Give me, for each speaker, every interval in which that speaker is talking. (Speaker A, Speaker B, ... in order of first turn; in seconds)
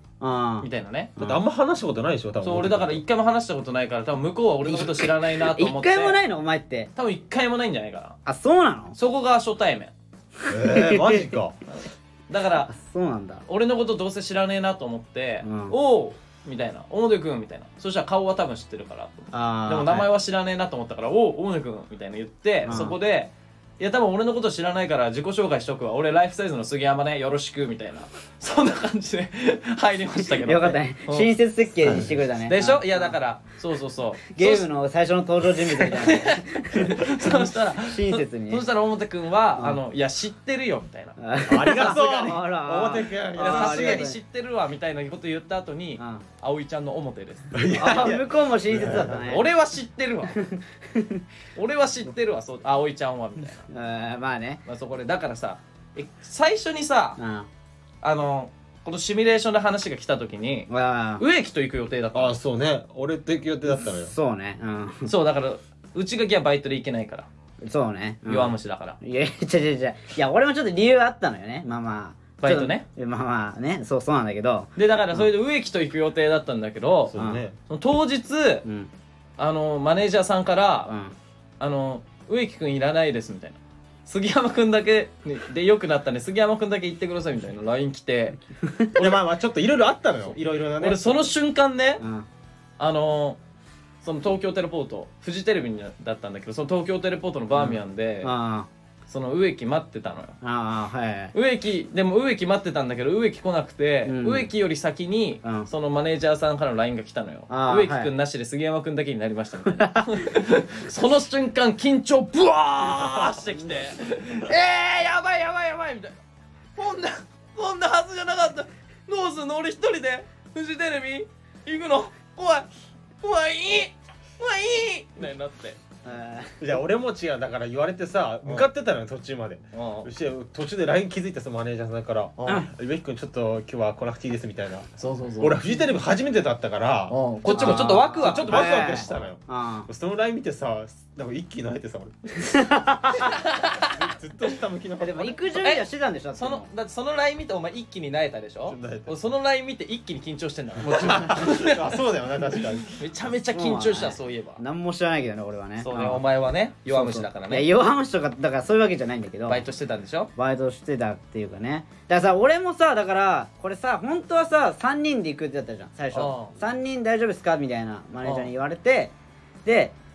Speaker A: 0.2-1.4, 4.6-6.9, 8.3-9.0, 10.4-11.3, 12.7-13.4, 15.4-15.8, 19.3-20.1, 22.7-23.0, 30.2-33.1, 34.3-38.6, 41.2-44.2, 46.0-46.2, 47.7-49.5, 50.3-51.2, 53.7-54.6, 57.2-57.5, 60.7-61.2, 63.9-65.1, 67.7-75.3, 77.2-77.4, 78.6-78.9, 80.9-81.2, 88.6-89.0, 92.0-92.3, 97.5-98.7, 100.4-101.3, 104.1-104.5, 105.4-105.7, 107.5-108.1, 109.7-110.3, 113.1-113.4, 126.0-126.6, 137.5-139.9, 142.4-143.4, 145.0-146.7, 153.5-156.2, 156.9-159.6, 160.4-169.1, 169.7-170.0
Speaker B: 0.6-1.1, 2.4-6.2, 7.0-8.2, 9.0-9.9, 11.8-12.7, 13.5-31.3, 32.5-34.7, 35.8-41.2, 43.4-47.6, 49.1-50.4, 51.6-53.7, 54.7-57.2, 58.0-62.4, 65.0-67.3, 68.3-69.0, 72.4-72.9, 74.8-77.2, 77.7-78.6, 79.4-80.9, 81.6-88.4, 90.8-92.0, 92.8-93.4, 94.0-98.3, 99.1-100.4, 101.3-116.2, 116.8-122.7, 123.2-125.8, 129.7-130.1, 132.4-132.7, 135.0-135.6, 137.1-139.1, 143.2-144.0, 145.6-151.9, 153.0-154.6, 155.8-157.7, 159.5-160.3, 166.1-166.5, 168.2-168.5
Speaker C: 1.2-3.0, 10.5-11.6, 31.8-32.1, 36.8-37.5, 41.4-44.1, 47.5-49.2, 62.1-64.1, 77.1-77.6, 89.0-91.3, 126.6-134.9, 135.4-142.8, 143.8-145.6, 148.7-149.2, 150.8-153.0